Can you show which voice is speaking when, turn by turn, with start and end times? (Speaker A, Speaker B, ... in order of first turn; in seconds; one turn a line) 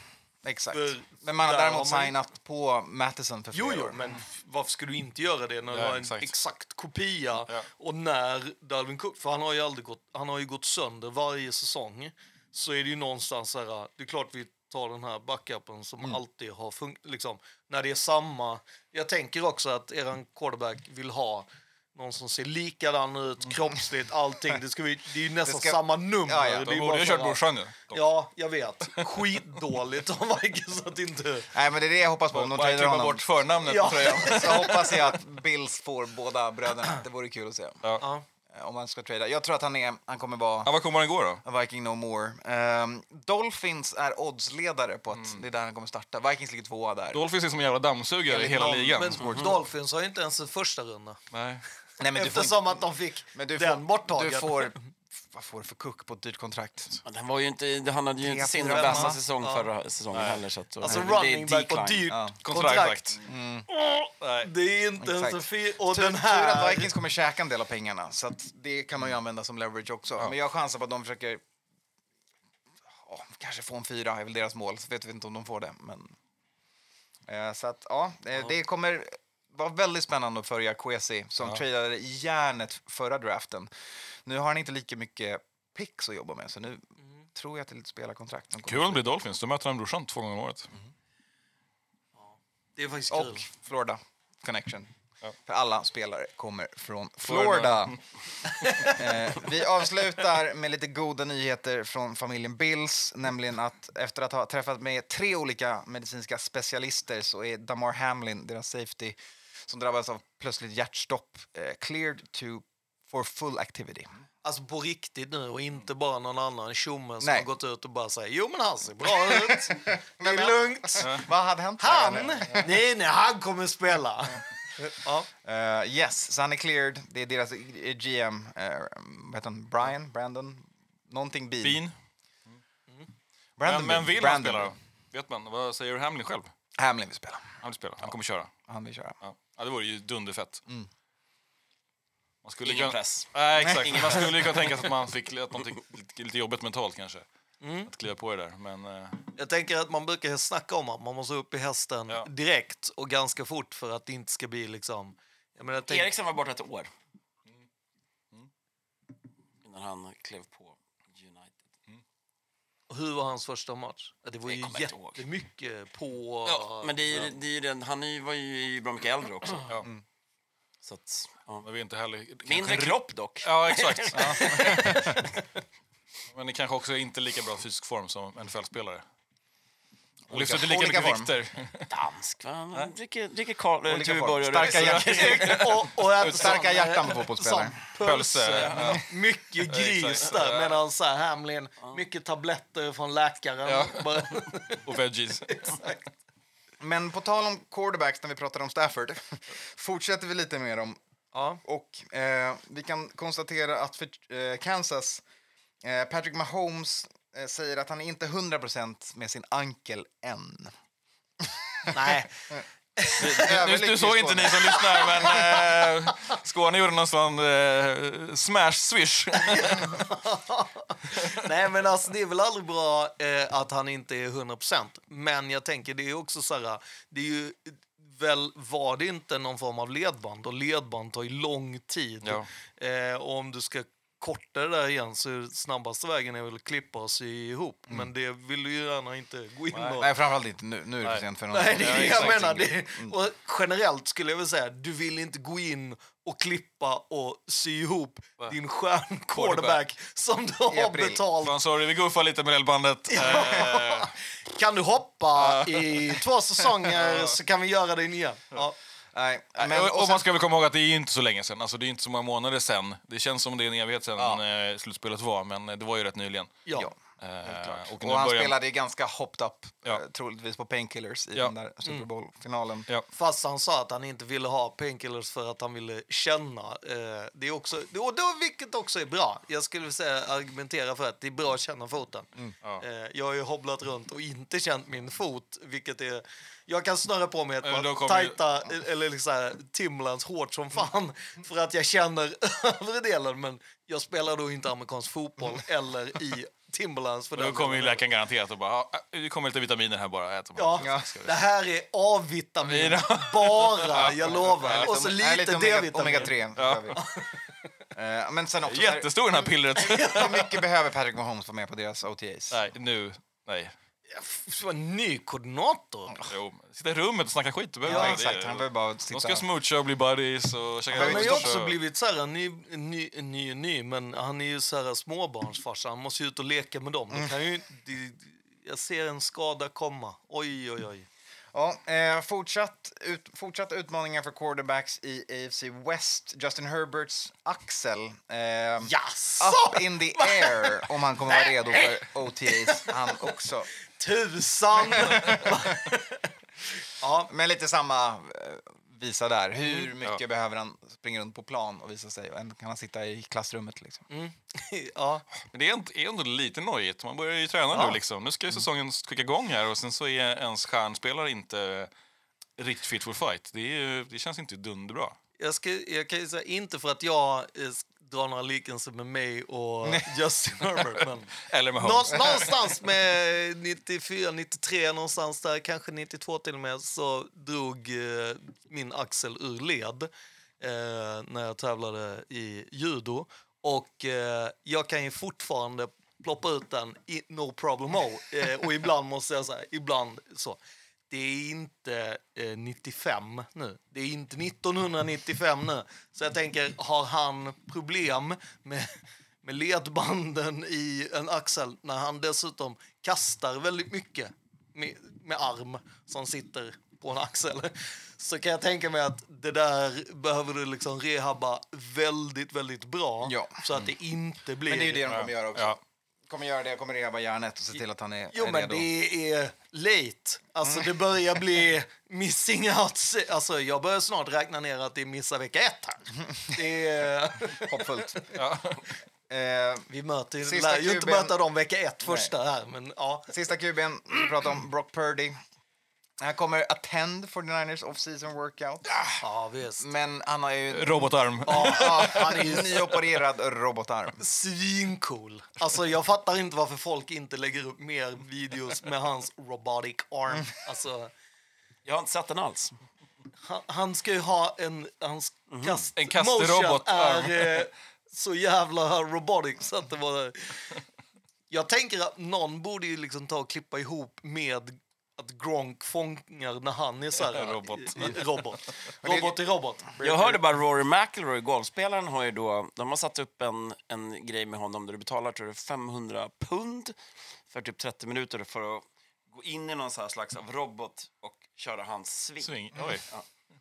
Speaker A: 0.4-4.0
Speaker B: 0.7-2.1
Speaker B: 3.5-31.5
Speaker C: 5.7-6.3
Speaker A: 25.4-26.7
Speaker C: 26.6-28.0
Speaker A: 31.5-33.5
Speaker C: 32.3-34.8
Speaker B: 33.6-35.1
Speaker A: 34.2-37.9
Speaker B: 38.0-38.2
Speaker A: 38.5-40.7
Speaker C: 40.6-41.4
Speaker A: 41.5-47.2
Speaker C: 45.1-45.4
Speaker C: 47.1-49.3
Speaker B: 48.3-51.2
Speaker A: 49.2-49.6
Speaker D: 49.2-49.5
Speaker C: 51.3-51.6
Speaker A: 52.0-57.0
Speaker B: 52.0-54.8
Speaker D: 57.0-62.1
Speaker A: 58.2-59.2
Speaker B: 58.6-59.7
Speaker C: 60.1-60.4
Speaker B: 60.8-63.2
Speaker A: 60.8-61.1
Speaker C: 62.4-63.2
Speaker A: 63.2-63.7
Speaker B: 63.7-66.9
Speaker C: 64.2-64.5
Speaker A: 65.0-71.4
Speaker A: 73.0-76.2
Speaker A: 77.3-83.7
Speaker A: 84.2-86.8
Speaker A: 87.3-89.0
Speaker C: 88.7-90.7
Speaker B: 92.2-93.5
Speaker A: 93.1-94.9
Speaker A: 95.5-98.0
Speaker C: 97.2-98.0
Speaker B: 98.6-99.2
Speaker A: 98.8-114.1
Speaker B: 114.4-121.2
Speaker A: 117.2-117.5
Speaker A: 119.1-122.8
Speaker C: 121.0-121.3
Speaker B: 121.8-125.3
Speaker A: 125.4-131.8
Speaker C: 131.6-131.9
Speaker A: 133.6-134.7
Speaker C: 133.6-136.5
Speaker A: 136.8-137.6
Speaker C: 137.6-138.5
Speaker A: 138.7-139.2
Speaker C: 139.2-140.6
Speaker C: 142.4-147.3
Speaker D: 142.6-144.7
Speaker B: 147.6-147.9
Speaker C: 147.9-149.3
Speaker B: 149.3-156.1
Speaker D: 155.9-156.9
Speaker D: 159.6-161.6
Speaker B: 162.9-167.2
Speaker D: 164.4-165.2
Speaker D: 166.4-169.7
Speaker D: 170.8-171.7
Speaker C: 171.6-175.2
Speaker D: 172.4-174.9
Speaker A: 174.2-175.2
Speaker C: 176.3-179.1
Speaker A: 180.3-181.3
Speaker C: 180.3-181.9
Speaker D: 181.9-185.8
Speaker A: 183.9-185.5
Speaker C: 184.6-186.5
Speaker B: 185.1-194.9
Speaker A: 186.2-187.8
Speaker C: 188.0-189.1
Speaker D: 188.5-188.9
Speaker C: 189.6-190.8
Speaker C: 193.7-194.3
Speaker C: 194.8-195.7
Speaker B: 195.5-196.1
Speaker A: 196.8-201.0
Speaker B: 201.3-201.6
Speaker A: 201.6-205.2
Speaker A: 205.8-210.7
Speaker A: 211.4-212.1
Speaker B: 211.9-213.4
Speaker C: 213.2-220.0
Speaker A: 213.2-215.3
Speaker B: 214.7-215.5
Speaker B: 219.4-240.1
Speaker C: 221.1-221.4
Speaker C: 232.2-232.5
Speaker C: 239.7-240.0
Speaker A: 240.0-243.2
Speaker B: 241.5-251.6
Speaker C: 241.8-242.5
Speaker C: 249.3-249.8
Speaker A: 250.7-251.2
Speaker C: 251.4-254.1
Speaker B: 253.1-258.8
Speaker C: 255.4-256.2
Speaker C: 256.9-257.4
Speaker A: 259.1-260.2
Speaker C: 259.6-266.6
Speaker A: 264.2-264.4
Speaker B: 266.7-266.9
Speaker C: 267.2-268.6
Speaker A: 267.4-272.9
Speaker B: 273.1-298.0
Speaker C: 287.6-288.4
Speaker C: 297.4-301.3
Speaker B: 300.6-306.4
Speaker A: 300.8-301.2
Speaker C: 302.6-305.0
Speaker A: 304.6-307.0
Speaker C: 306.6-307.0
Speaker B: 307.0-307.3
Speaker A: 307.9-309.1
Speaker C: 308.6-310.6
Speaker B: 309.8-310.3
Speaker A: 310.0-312.6
Speaker C: 312.5-313.7
Speaker B: 314.1-316.2
Speaker C: 316.2-321.8
Speaker B: 317.9-318.2
Speaker A: 317.9-319.4
Speaker A: 320.9-321.6
Speaker B: 320.9-331.1
Speaker A: 331.5-343.7
Speaker B: 338.8-343.0
Speaker B: 344.0-346.3
Speaker A: 344.9-345.6
Speaker B: 347.0-347.3
Speaker A: 347.3-354.1
Speaker B: 354.1-355.3
Speaker C: 355.4-361.9
Speaker B: 357.7-358.0
Speaker C: 362.6-365.2
Speaker B: 365.4-390.6
Speaker C: 371.0-372.5
Speaker B: 391.1-398.9
Speaker B: 399.4-415.1
Speaker A: 413.2-413.6
Speaker A: 414.6-418.9
Speaker C: 415.1-415.8
Speaker B: 418.3-428.4
Speaker A: 420.6-420.9
Speaker A: 427.5-428.2
Speaker C: 428.3-428.8
Speaker A: 429.3-429.9
Speaker B: 429.9-433.4
Speaker A: 430.4-431.4
Speaker A: 432.0-432.3
Speaker A: 433.3-435.4
Speaker A: 436.2-439.2
Speaker B: 439.2-439.9
Speaker A: 439.8-444.2
Speaker C: 440.7-442.5
Speaker B: 441.5-442.9
Speaker B: 444.2-451.1
Speaker D: 451.9-452.8
Speaker B: 453.4-460.7
Speaker D: 455.5-455.9
Speaker C: 456.0-457.7
Speaker B: 461.5-470.0
Speaker C: 467.2-468.3
Speaker A: 469.0-469.4
Speaker A: 469.9-470.4
Speaker D: 470.0-477.0
Speaker D: 477.5-483.2
Speaker C: 482.4-483.1